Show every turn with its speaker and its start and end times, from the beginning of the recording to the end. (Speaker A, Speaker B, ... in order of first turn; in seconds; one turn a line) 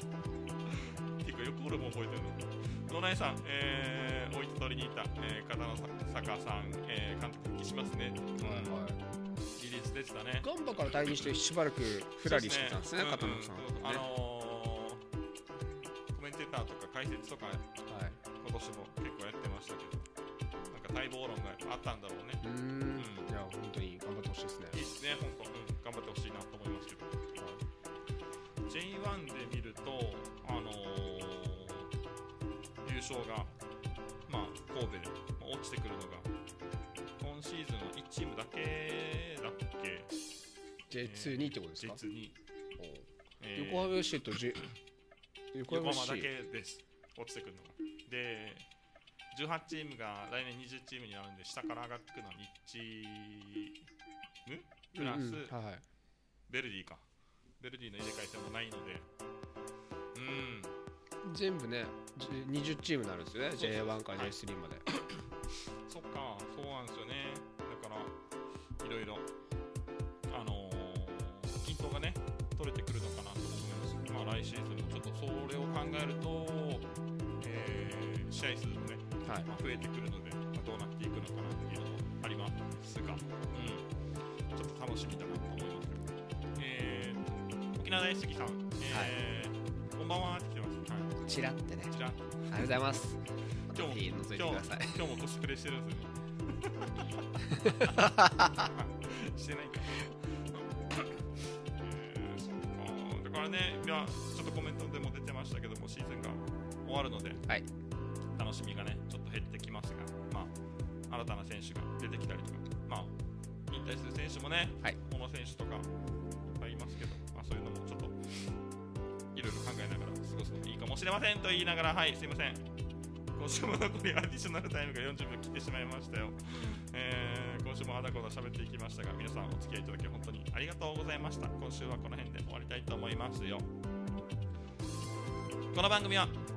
Speaker A: 0.7-8.8
Speaker B: 8.4-9.0
Speaker A: 9.6-10.5
Speaker B: 10.4-14.1
Speaker A: 12.2-15.0
Speaker A: 16.1-17.7
Speaker B: 17.9-18.2
Speaker A: 18.4-20.1
Speaker A: 20.7-22.4
Speaker B: 22.4-24.8
Speaker A: 23.0-23.3
Speaker A: 24.7-27.2
Speaker A: 28.7-31.9
Speaker A: 32.8-33.5
Speaker A: 34.3-36.3
Speaker A: 37.2-40.1
Speaker B: 40.9-42.0
Speaker A: 41.0-42.4
Speaker B: 42.8-44.6
Speaker A: 43.4-44.0
Speaker B: 45.5-46.3
Speaker A: 45.7-48.7
Speaker A: 49.3-53.8
Speaker A: 54.5-55.5
Speaker B: 55.0-55.8
Speaker A: 56.5-57.1
Speaker A: 57.6-59.1
Speaker A: 60.1-60.7
Speaker B: 61.2-64.9
Speaker A: 63.5-64.4
Speaker A: 65.9-68.1
Speaker A: 68.8-69.3
Speaker A: 70.3-76.9
Speaker A: 77.4-83.9
Speaker A: 84.5-91.2
Speaker B: 88.9-89.1
Speaker B: 91.2-91.9
Speaker A: 91.9-92.7
Speaker B: 92.5-95.0
Speaker A: 93.7-107.4
Speaker B: 97.5-98.7
Speaker A: 108.4-110.5
Speaker A: 111.1-113.1
Speaker A: 113.7-115.9
Speaker A: 116.5-118.6
Speaker A: 119.3-122.6
Speaker A: 123.3-133.7
Speaker A: 135.7-136.4